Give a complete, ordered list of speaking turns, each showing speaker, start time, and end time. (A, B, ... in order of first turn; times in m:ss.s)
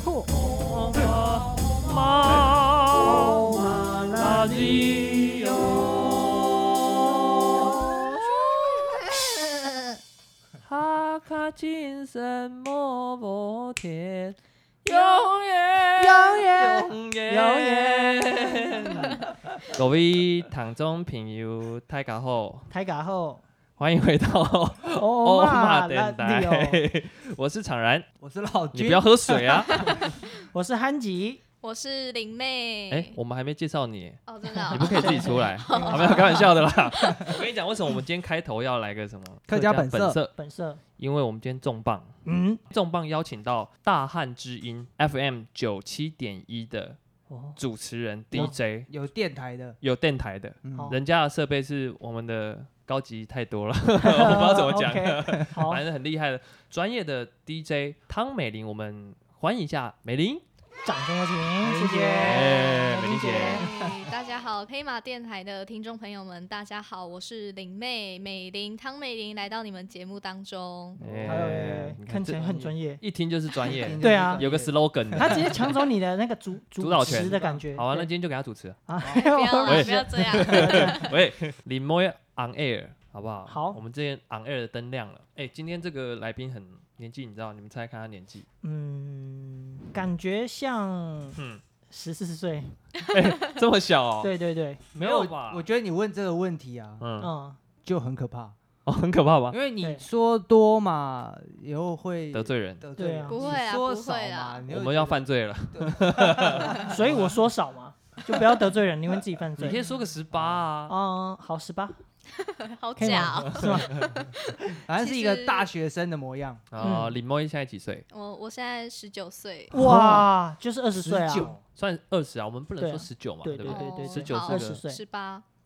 0:00.3-0:09.0 A
0:03.2-0:04.5 B
0:10.6-0:22.7 A
0:16.0-0:19.2 B
0:22.7-0:23.4 B
0:23.8-0:28.0 A
0:24.9-0:26.8 B
0:28.2-0:30.0 C
0:28.7-0:29.9 A
0:30.5-0:31.4 B
0:31.6-0:33.2 D
0:32.9-0:40.3 A
0:34.2-0:37.4 D
0:34.8-0:36.3 B
0:36.9-0:37.3 C
0:39.5-0:40.2 C
0:40.3-0:40.8 B
0:41.0-0:42.2 A
0:42.2-0:42.6 B
0:42.7-0:47.0 A
0:47.3-0:47.6 B
0:47.6-0:48.9 A
0:48.3-0:49.8 C
0:49.8-1:00.4 A
0:50.6-0:50.9 C
0:54.0-0:55.8 B
1:00.8-1:03.6 B
1:01.6-1:02.7 C
1:02.2-1:03.6 A
1:03.3-1:11.0 D
1:03.6-1:04.1 C
1:11.0-1:12.7 C
1:11.0-1:15.6 A
1:11.2-1:13.0 B
1:13.6-1:15.6 C
1:14.0-1:14.4 B
1:15.1-1:18.1 B
1:16.8-1:18.8 A
1:17.0-1:17.6 C
1:18.9-1:21.1 B
1:19.0-1:21.2 D
1:19.6-1:28.4 A
1:23.5-1:23.8 B
1:28.6-1:32.8 B
1:31.4-1:31.6 A
1:33.0-1:34.3 A
1:34.2-1:34.8 B
1:34.9-1:35.6 A
1:35.0-1:37.0 C
1:37.0-1:37.3 A
1:37.2-1:37.6 B
1:37.8-1:38.6 C
1:38.8-1:39.6 A
1:39.5-1:47.1 C
1:42.3-1:42.8 A
1:43.0-1:43.5 B
1:43.3-1:44.6 D
1:44.7-1:47.4 A
1:46.8-1:49.8 B
1:49.6-1:50.9 A
1:49.6-1:50.6 C
1:50.9-1:52.0 B
1:52.3-1:55.7 D
1:53.0-1:54.0 B
1:53.0-1:54.1 A
1:54.8-1:56.6 C
1:56.7-1:58.0 A
1:56.8-1:57.2 B
1:58.1-1:59.7 D
1:59.7-2:00.3 C
1:59.7-2:01.5 B
2:00.9-2:01.6 C
2:01.8-2:04.8 A
2:02.8-2:05.0 B
2:03.7-2:05.4 D